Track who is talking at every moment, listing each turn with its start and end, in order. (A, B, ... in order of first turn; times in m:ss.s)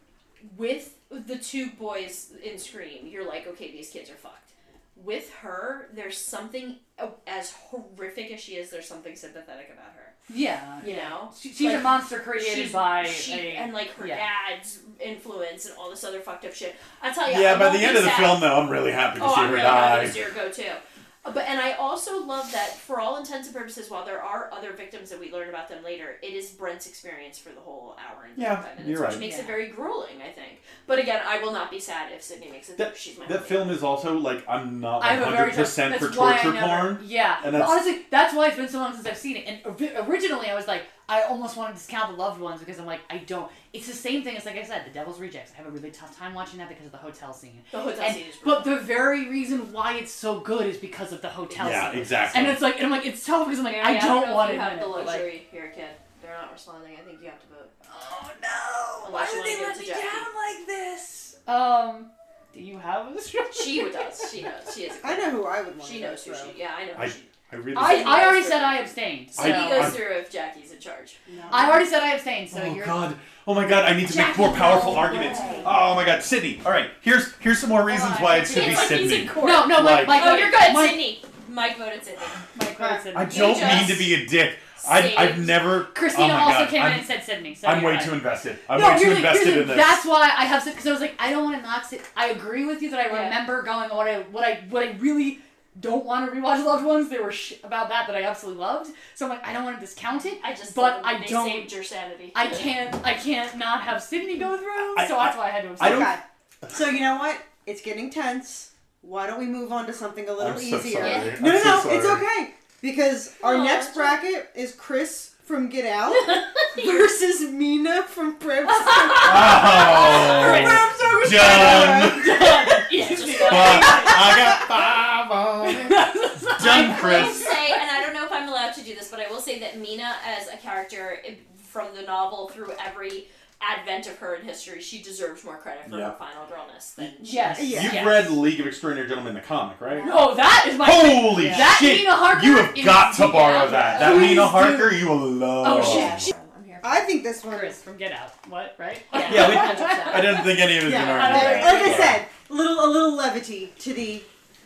0:00.4-0:10.2 A
0:10.3-0:14.2 B
0:10.8-0:18.5 A
0:17.3-0:20.2 C
0:19.2-0:33.8 A
0:28.4-0:29.2 C
0:29.1-0:29.7 B
0:32.8-0:37.9 C
0:35.0-0:55.3 B
0:47.7-0:48.8 A
0:51.5-0:52.7 C
0:53.6-0:57.7 A
0:57.9-1:04.3 B
0:59.0-1:00.3 A
1:03.5-1:11.2 A
1:05.0-1:06.6 D
1:07.0-1:08.3 C
1:07.7-1:09.9 B
1:09.4-1:10.0 C
1:11.3-1:11.8 D
1:11.5-1:13.0 B
1:12.5-1:20.5 C
1:14.1-1:15.6 A
1:14.1-1:15.7 B
1:15.0-1:15.7 D
1:17.9-1:21.1 B
1:18.5-1:22.4 A
1:22.5-1:24.1 B
1:22.6-1:23.1 D
1:23.1-1:30.0 C
1:23.3-1:24.2 A
1:24.8-1:25.8 A
1:25.9-1:41.7 B
1:33.1-1:33.4 A
1:40.4-1:42.7 A
1:42.3-1:46.2 B
1:44.8-1:46.8 C
1:45.8-2:02.3 D
1:50.4-1:52.3 C
1:51.0-1:51.4 A
1:53.4-1:54.2 A
1:56.1-1:56.9 A
1:58.9-2:00.9 A
1:59.2-2:07.5 C
1:59.6-2:04.6 B
2:02.7-2:04.2 A
2:05.6-2:07.6 B
2:06.7-2:17.8 A
2:15.9-2:16.2 C
2:17.2-2:18.3 B
2:17.5-2:18.1 D
2:17.6-2:26.3 C
2:20.0-2:25.1 B
2:23.5-2:24.5 A
2:25.6-2:26.3 B
2:25.6-2:27.0 A
2:26.8-2:27.8 D
2:27.5-2:32.2 B
2:29.1-2:30.6 A
2:29.2-2:32.2 C
2:30.8-2:34.3 D